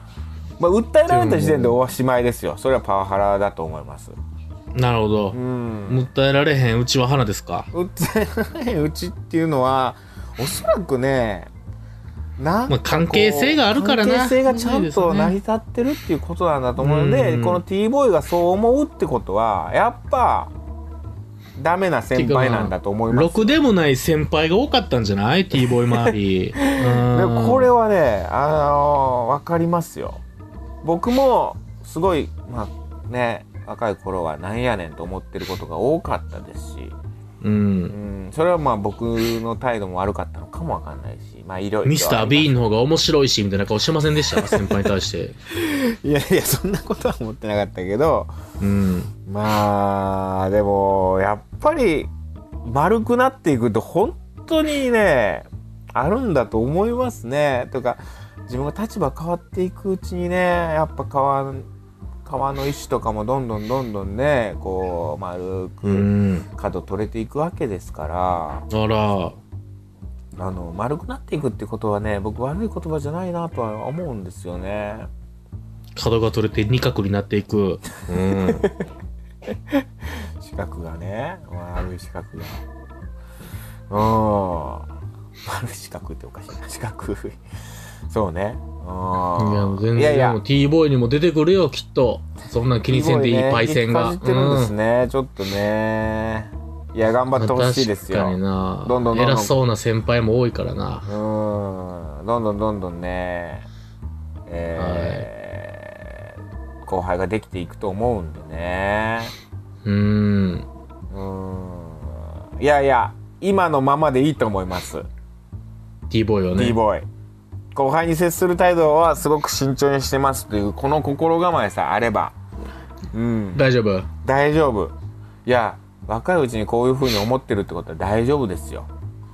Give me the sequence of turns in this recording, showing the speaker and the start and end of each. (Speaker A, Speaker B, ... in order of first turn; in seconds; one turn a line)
Speaker A: 0.6-4.2
Speaker B: 1.1-1.8
Speaker B: 4.7-7.7
Speaker A: 5.3-6.1
Speaker A: 7.7-11.5
Speaker A: 12.4-20.5
Speaker B: 12.7-15.4
Speaker B: 16.8-17.6
Speaker A: 21.6-23.6
Speaker B: 22.1-27.7
Speaker A: 25.9-30.2
Speaker A: 30.8-37.0
Speaker B: 37.4-38.0
Speaker A: 37.9-42.5
Speaker B: 41.9-45.4
Speaker A: 44.4-44.7
Speaker A: 45.5-48.3
Speaker B: 48.6-49.1
Speaker A: 49.3-52.1
Speaker A: 52.6-61.7
Speaker A: 62.3-68.7
Speaker B: 65.8-66.5
Speaker B: 68.7-69.4
Speaker A: 70.4-75.1
Speaker B: 76.0-78.7
Speaker A: 78.4-78.9
Speaker A: 79.7-82.6
Speaker A: 83.9-84.9
Speaker A: 85.4-87.4
Speaker A: 88.1-90.4
Speaker B: 89.4-94.7
Speaker A: 92.9-99.5
Speaker B: 97.3-101.1
Speaker A: 101.0-103.7
Speaker A: 104.5-106.3
Speaker B: 104.8-105.3
Speaker A: 106.8-109.3
Speaker B: 109.8-110.7
Speaker A: 111.1-115.1
Speaker B: 116.1-116.8
Speaker A: 116.5-117.1
Speaker A: 117.7-122.4
Speaker A: 123.1-123.7
Speaker B: 123.5-124.1
Speaker A: 124.2-124.9
Speaker A: 125.5-128.9